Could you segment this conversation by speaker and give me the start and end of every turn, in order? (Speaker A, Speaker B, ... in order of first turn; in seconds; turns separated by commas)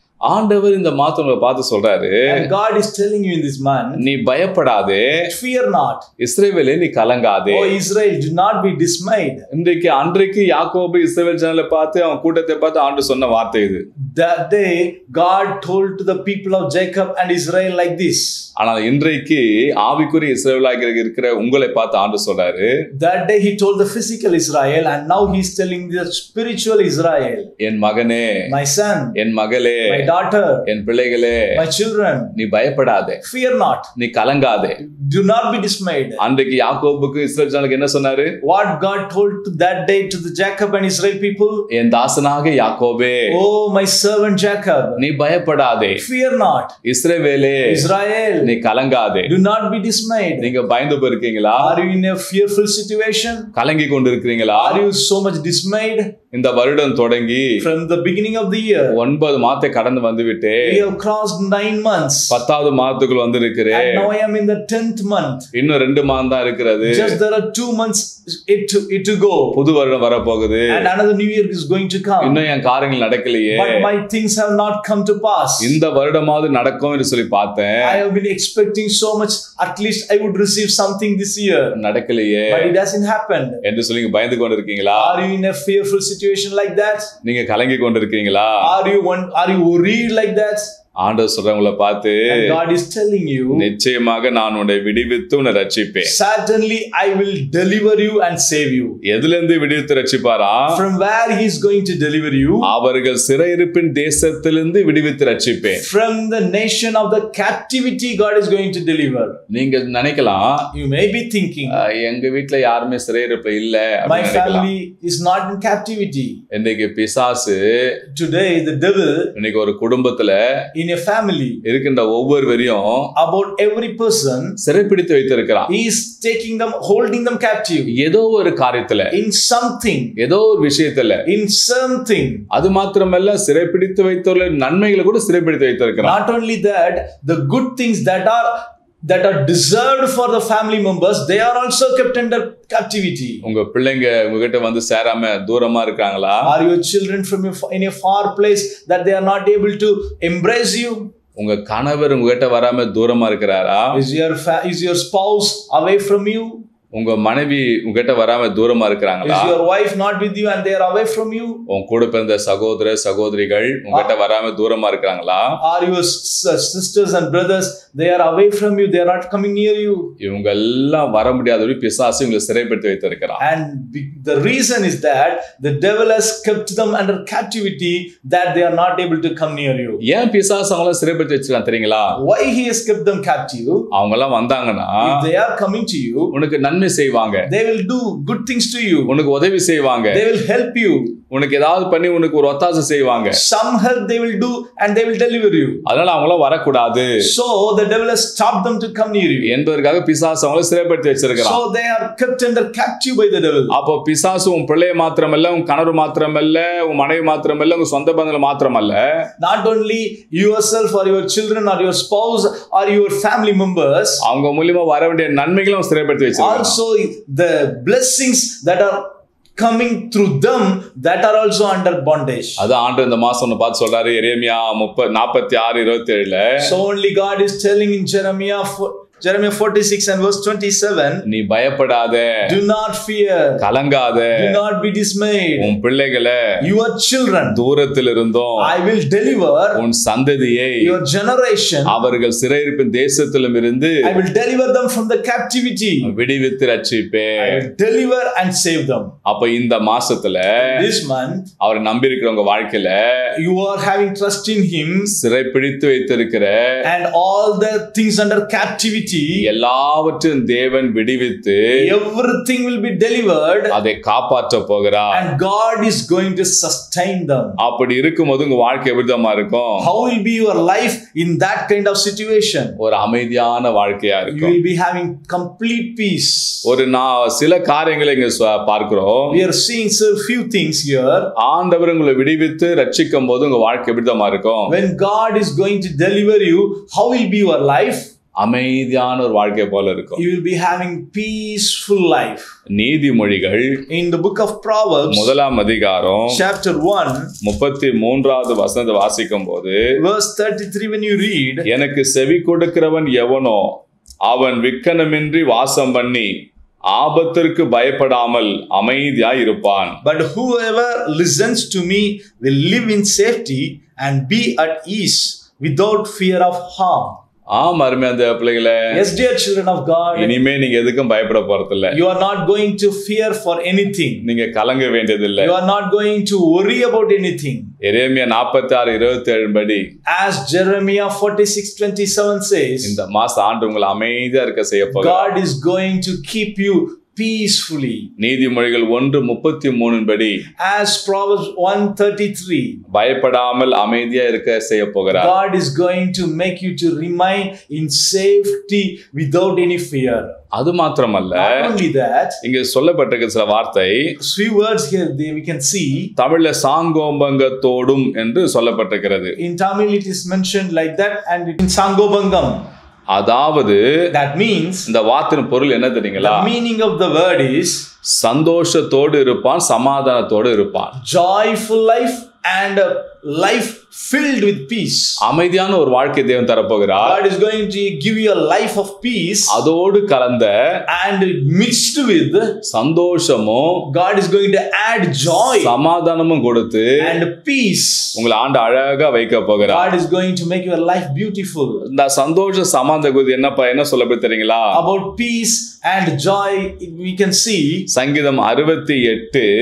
Speaker A: 0.2-2.5, Speaker B: 2.3-4.0, Speaker A: 4.0-5.1, Speaker B: 5.3-6.1, Speaker A: 6.2-7.8, Speaker B: 7.5-9.5, Speaker A: 9.5-13.8, Speaker B: 14.1-18.5, Speaker A: 18.6-22.7, Speaker B: 22.9-27.5, Speaker A: 27.6-28.5, Speaker B: 28.5-29.2, Speaker A: 29.2-30.1, Speaker B: 29.9-30.7, Speaker A: 30.7-31.6, Speaker B: 31.5-32.4, Speaker A: 32.4-33.2, Speaker B: 33.2-33.9, Speaker A: 34.0-34.8, Speaker B: 34.8-36.2, Speaker A: 36.2-38.3, Speaker B: 38.4-41.7, Speaker A: 41.7-43.4, Speaker B: 43.3-45.0, Speaker A: 45.0-46.0, Speaker B: 45.9-46.8, Speaker A: 46.8-47.8, Speaker B: 47.6-48.5, Speaker A: 48.4-49.3, Speaker B: 49.2-50.5, Speaker A: 50.4-51.8, Speaker B: 51.6-53.5, Speaker A: 53.5-54.8, Speaker B: 54.5-56.1, Speaker A: 56.3-57.6, Speaker B: 57.6-59.0, Speaker A: 58.9-60.9, Speaker B: 60.6-62.4, Speaker A: 62.3-64.1, Speaker B: 63.7-65.5, Speaker A: 65.5-67.2, Speaker B: 66.8-69.6, Speaker A: 69.5-70.9, Speaker B: 70.7-72.5, Speaker A: 72.2-73.9, Speaker B: 73.5-75.8, Speaker A: 75.6-78.0, Speaker B: 77.8-81.8, Speaker A: 81.7-82.7, Speaker B: 82.5-83.6, Speaker A: 83.6-85.2, Speaker B: 84.9-87.1, Speaker A: 87.2-88.7, Speaker B: 88.6-90.8, Speaker A: 91.0-92.6, Speaker B: 92.3-93.7, Speaker A: 93.5-96.1, Speaker B: 96.0-99.0, Speaker A: 99.0-100.8, Speaker B: 100.7-102.7, Speaker A: 102.6-105.8, Speaker B: 105.7-109.4, Speaker A: 109.5-110.7, Speaker B: 110.7-111.8, Speaker A: 111.7-114.7, Speaker B: 114.0-116.4, Speaker A: 116.5-118.0, Speaker B: 118.1-119.4, Speaker A: 119.4-120.7, Speaker B: 120.7-121.6, Speaker A: 121.6-123.1, Speaker B: 123.2-124.6, Speaker A: 124.6-125.7, Speaker B: 125.7-128.0, Speaker A: 127.9-129.2, Speaker B: 129.1-130.2, Speaker A: 130.2-131.2, Speaker B: 131.2-132.4, Speaker A: 132.5-136.2, Speaker B: 136.0-143.4, Speaker A: 143.4-146.5, Speaker B: 146.4-151.1, Speaker A: 151.4-154.0, Speaker B: 153.9-156.6, Speaker A: 156.9-159.6, Speaker B: 159.2-161.7, Speaker A: 161.7-165.6, Speaker B: 165.6-170.1, Speaker A: 170.2-173.4, Speaker B: 173.4-180.0, Speaker A: 180.0-182.2, Speaker B: 182.2-183.9, Speaker A: 183.9-185.2, Speaker B: 185.0-186.3, Speaker A: 186.3-187.5, Speaker B: 187.5-189.2, Speaker A: 189.1-190.2, Speaker B: 190.1-191.2, Speaker A: 191.3-193.4, Speaker B: 193.3-195.8, Speaker A: 195.9-197.1, Speaker B: 197.2-199.6, Speaker A: 199.4-201.6, Speaker B: 201.4-203.8, Speaker A: 203.7-209.3, Speaker B: 209.4-214.2, Speaker A: 214.2-216.8, Speaker B: 216.4-222.7, Speaker A: 222.6-226.7, Speaker B: 226.6-231.3, Speaker A: 231.3-232.5, Speaker B: 232.4-233.6, Speaker A: 233.6-234.6, Speaker B: 234.3-235.8, Speaker A: 235.6-236.4, Speaker B: 236.6-237.6, Speaker A: 237.5-238.7, Speaker B: 238.6-239.8, Speaker A: 239.7-240.9, Speaker B: 240.8-242.1, Speaker A: 241.9-244.2, Speaker B: 244.0-246.2, Speaker A: 246.0-247.6, Speaker B: 247.4-249.1, Speaker A: 249.2-250.7, Speaker B: 250.6-251.5, Speaker A: 251.6-253.3, Speaker B: 253.3-255.2, Speaker A: 255.1-256.8, Speaker B: 256.8-259.5, Speaker A: 259.4-261.6, Speaker B: 261.8-263.8, Speaker A: 263.7-265.2, Speaker B: 265.1-267.6, Speaker A: 267.6-269.9, Speaker B: 269.8-272.8, Speaker A: 272.8-274.6, Speaker B: 274.3-276.7, Speaker A: 276.6-279.4, Speaker B: 279.3-281.3, Speaker A: 281.4-284.8, Speaker B: 284.7-288.1, Speaker A: 288.4-290.2, Speaker B: 290.2-292.5, Speaker A: 292.7-293.9, Speaker B: 293.9-295.3, Speaker A: 295.1-296.4, Speaker B: 296.3-297.3, Speaker A: 297.4-299.8, Speaker B: 300.0-301.7, Speaker A: 301.7-306.3, Speaker A: 306.9-310.0, Speaker B: 310.0-317.2, Speaker A: 317.5-319.0, Speaker B: 318.9-320.4, Speaker A: 320.1-322.0, Speaker B: 321.9-324.3, Speaker A: 324.2-325.5, Speaker B: 325.4-327.7, Speaker A: 327.8-329.9, Speaker B: 330.1-333.0, Speaker A: 332.8-335.3, Speaker B: 334.9-338.1, Speaker A: 338.2-340.4, Speaker B: 340.6-342.8, Speaker A: 342.9-345.3, Speaker B: 345.1-350.4, Speaker A: 350.5-351.7, Speaker B: 351.3-352.4, Speaker A: 352.4-354.1, Speaker B: 354.2-356.1, Speaker A: 356.2-359.4, Speaker B: 359.4-362.7, Speaker A: 363.1-363.8, Speaker B: 364.1-364.9, Speaker A: 364.9-366.5, Speaker B: 366.2-367.9, Speaker A: 368.1-371.0, Speaker B: 371.0-375.2, Speaker A: 375.2-377.2, Speaker B: 377.0-379.6, Speaker A: 379.5-380.8, Speaker B: 380.9-382.6, Speaker A: 382.7-383.9, Speaker B: 383.8-385.8, Speaker A: 385.6-386.9, Speaker B: 387.0-388.2, Speaker A: 388.1-389.9, Speaker B: 389.6-391.9, Speaker A: 391.9-394.8, Speaker B: 394.7-397.9, Speaker A: 397.9-399.5